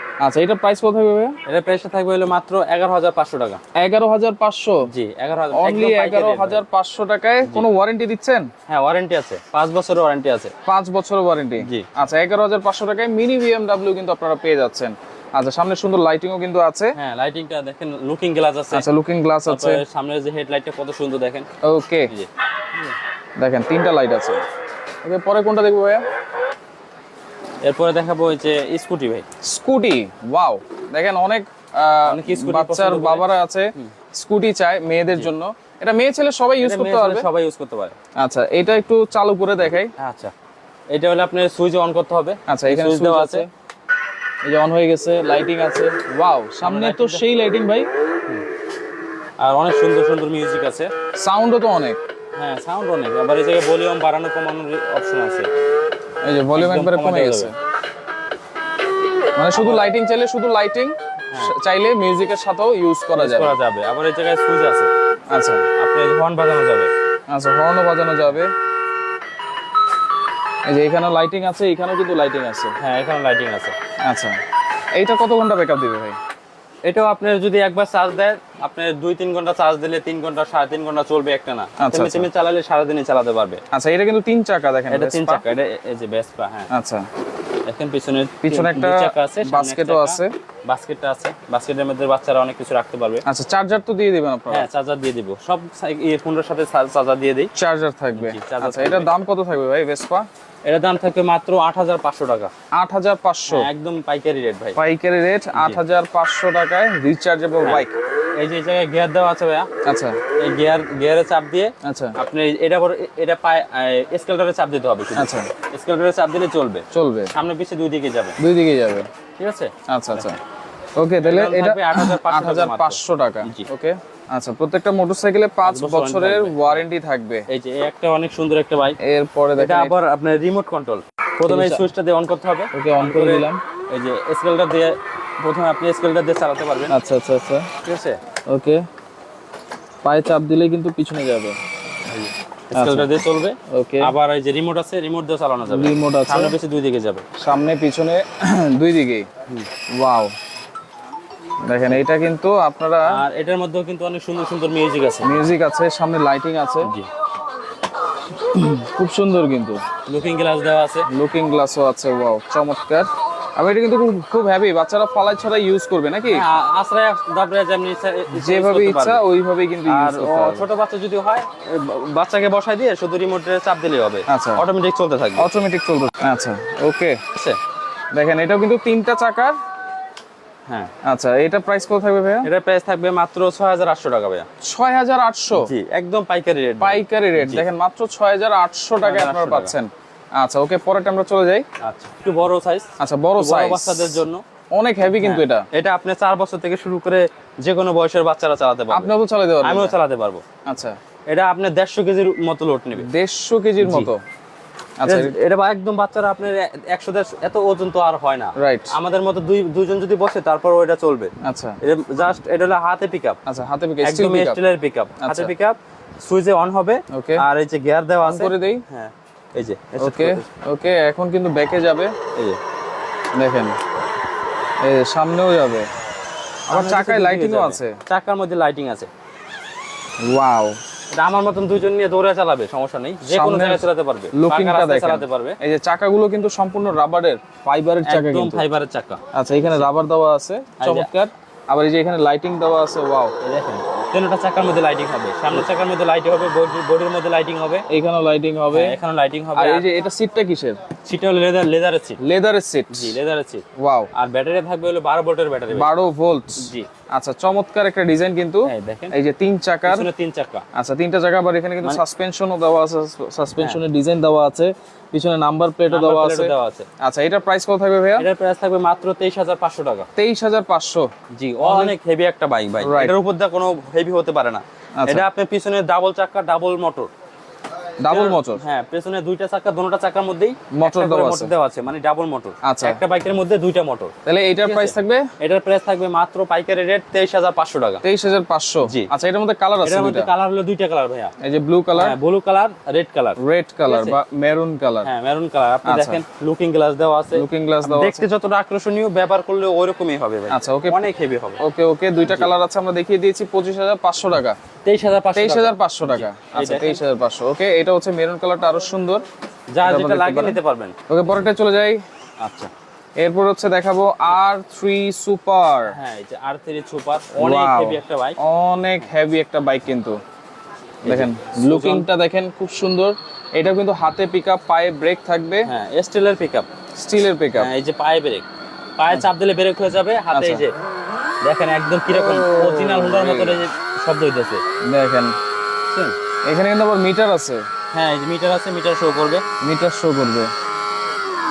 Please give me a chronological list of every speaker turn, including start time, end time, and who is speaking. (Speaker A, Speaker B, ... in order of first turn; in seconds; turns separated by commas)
Speaker A: 0.2-1.3, Speaker B: 1.5-3.6, Speaker A: 3.8-4.8, Speaker B: 4.9-6.6, Speaker A: 5.5-8.5, Speaker B: 8.7-10.5, Speaker A: 10.7-16.9, Speaker B: 11.6-11.9, Speaker B: 17.0-18.9, Speaker A: 18.7-19.8, Speaker B: 19.5-21.5, Speaker A: 21.6-22.1, Speaker B: 22.1-23.0, Speaker A: 23.4-24.4, Speaker A: 25.0-26.0, Speaker B: 27.6-29.3, Speaker A: 29.4-37.3, Speaker B: 32.1-33.9, Speaker B: 36.6-38.0, Speaker A: 38.2-39.9, Speaker B: 40.0-40.3, Speaker B: 40.9-43.5, Speaker A: 42.5-43.5, Speaker A: 44.5-47.9, Speaker B: 46.6-47.2, Speaker B: 49.4-50.9, Speaker A: 51.2-52.0, Speaker B: 52.4-55.5, Speaker A: 56.2-57.5, Speaker B: 56.6-57.5, Speaker A: 59.4-63.6, Speaker B: 59.5-59.9, Speaker B: 63.2-64.9, Speaker A: 65.3-65.6, Speaker B: 65.8-66.9, Speaker A: 67.3-68.5, Speaker A: 70.7-72.8, Speaker B: 72.8-73.8, Speaker A: 74.0-74.4, Speaker A: 75.0-76.2, Speaker B: 76.8-83.6, Speaker A: 81.8-82.3, Speaker A: 83.7-85.5, Speaker B: 84.9-86.7, Speaker A: 86.7-87.0, Speaker B: 87.7-93.2, Speaker A: 88.4-90.3, Speaker A: 93.3-94.7, Speaker B: 94.5-97.5, Speaker A: 97.5-100.3, Speaker B: 98.2-99.2, Speaker B: 100.7-102.5, Speaker A: 102.8-103.7, Speaker B: 103.5-104.8, Speaker A: 104.8-108.0, Speaker B: 105.5-105.8, Speaker B: 107.6-109.7, Speaker A: 109.8-110.2, Speaker B: 110.4-118.4, Speaker A: 111.8-112.2, Speaker A: 115.1-115.5, Speaker A: 116.9-117.3, Speaker A: 118.4-119.1, Speaker B: 119.4-120.3, Speaker A: 119.9-120.4, Speaker A: 121.0-127.5, Speaker B: 121.2-123.7, Speaker B: 125.6-126.8, Speaker B: 127.5-129.0, Speaker A: 129.0-129.9, Speaker B: 129.6-136.9, Speaker A: 131.5-131.9, Speaker A: 132.8-133.6, Speaker A: 136.9-137.7, Speaker B: 137.8-138.2, Speaker A: 138.5-138.8, Speaker A: 140.0-141.6, Speaker B: 142.1-147.2, Speaker A: 142.7-143.2, Speaker A: 143.7-144.1, Speaker A: 145.7-146.6, Speaker A: 147.4-149.3, Speaker A: 150.0-150.3, Speaker A: 151.7-153.1, Speaker B: 153.1-155.5, Speaker A: 155.2-156.9, Speaker A: 158.3-159.8, Speaker B: 160.1-161.1, Speaker A: 161.1-166.5, Speaker B: 166.3-169.2, Speaker A: 168.3-170.7, Speaker B: 169.9-175.5, Speaker A: 174.3-174.6, Speaker A: 175.4-177.2, Speaker B: 177.3-177.6, Speaker A: 178.1-179.6, Speaker B: 180.7-180.9, Speaker A: 181.1-182.5, Speaker B: 182.4-184.5, Speaker A: 184.6-185.7, Speaker B: 185.5-187.7, Speaker A: 186.8-191.7, Speaker B: 189.0-189.8, Speaker B: 191.8-194.4, Speaker A: 193.0-194.2, Speaker A: 194.8-195.7, Speaker B: 195.1-199.1, Speaker A: 198.9-199.9, Speaker B: 199.6-200.4, Speaker A: 200.7-201.0, Speaker B: 201.3-203.1, Speaker A: 203.0-204.2, Speaker B: 203.8-204.1, Speaker A: 205.0-205.4, Speaker B: 205.1-213.4, Speaker A: 208.6-208.9, Speaker A: 211.4-211.8, Speaker A: 213.5-214.6, Speaker B: 214.0-220.5, Speaker A: 215.2-215.5, Speaker A: 217.1-217.4, Speaker A: 218.2-218.8, Speaker A: 220.0-222.1, Speaker A: 223.4-223.7, Speaker A: 224.8-225.9, Speaker A: 226.7-228.0, Speaker B: 226.7-229.1, Speaker A: 230.2-230.8, Speaker B: 231.1-235.6, Speaker A: 233.3-238.6, Speaker B: 238.1-239.9, Speaker A: 239.3-243.3, Speaker B: 240.8-241.1, Speaker B: 243.4-247.9, Speaker A: 247.9-249.0, Speaker B: 248.7-249.9, Speaker A: 249.6-250.8, Speaker B: 251.1-252.2, Speaker A: 252.2-253.2, Speaker B: 252.9-255.9, Speaker A: 253.8-254.1, Speaker A: 255.7-260.1, Speaker B: 256.6-256.9, Speaker B: 258.7-259.1, Speaker B: 259.9-260.6, Speaker A: 260.8-268.3, Speaker B: 265.9-266.9, Speaker B: 268.2-270.1, Speaker A: 270.2-271.1, Speaker B: 271.3-277.1, Speaker A: 271.6-271.9, Speaker A: 272.8-273.2, Speaker A: 275.0-275.3, Speaker A: 278.0-278.6, Speaker B: 278.1-288.0, Speaker A: 280.8-281.5, Speaker A: 282.6-283.0, Speaker A: 284.2-285.3, Speaker A: 288.0-290.3, Speaker B: 288.8-289.1, Speaker B: 289.8-291.3, Speaker A: 291.4-292.2, Speaker B: 292.0-294.2, Speaker A: 293.4-295.1, Speaker B: 295.1-301.6, Speaker A: 295.9-296.2, Speaker A: 297.3-298.3, Speaker A: 300.5-301.0, Speaker A: 301.6-304.6, Speaker B: 304.9-307.0, Speaker A: 305.4-309.2, Speaker B: 309.7-310.9, Speaker A: 309.8-312.0, Speaker B: 312.4-312.7, Speaker A: 313.2-315.9, Speaker B: 315.9-318.4, Speaker A: 317.4-320.2, Speaker B: 321.0-322.1, Speaker A: 321.1-325.7, Speaker B: 325.7-326.7, Speaker A: 327.0-327.7, Speaker B: 327.6-328.5, Speaker B: 329.0-330.7, Speaker A: 330.3-330.6, Speaker B: 331.4-334.6, Speaker A: 332.1-333.6, Speaker A: 334.9-335.4, Speaker B: 335.9-336.2, Speaker A: 336.5-337.6, Speaker B: 337.9-339.4, Speaker A: 339.6-340.5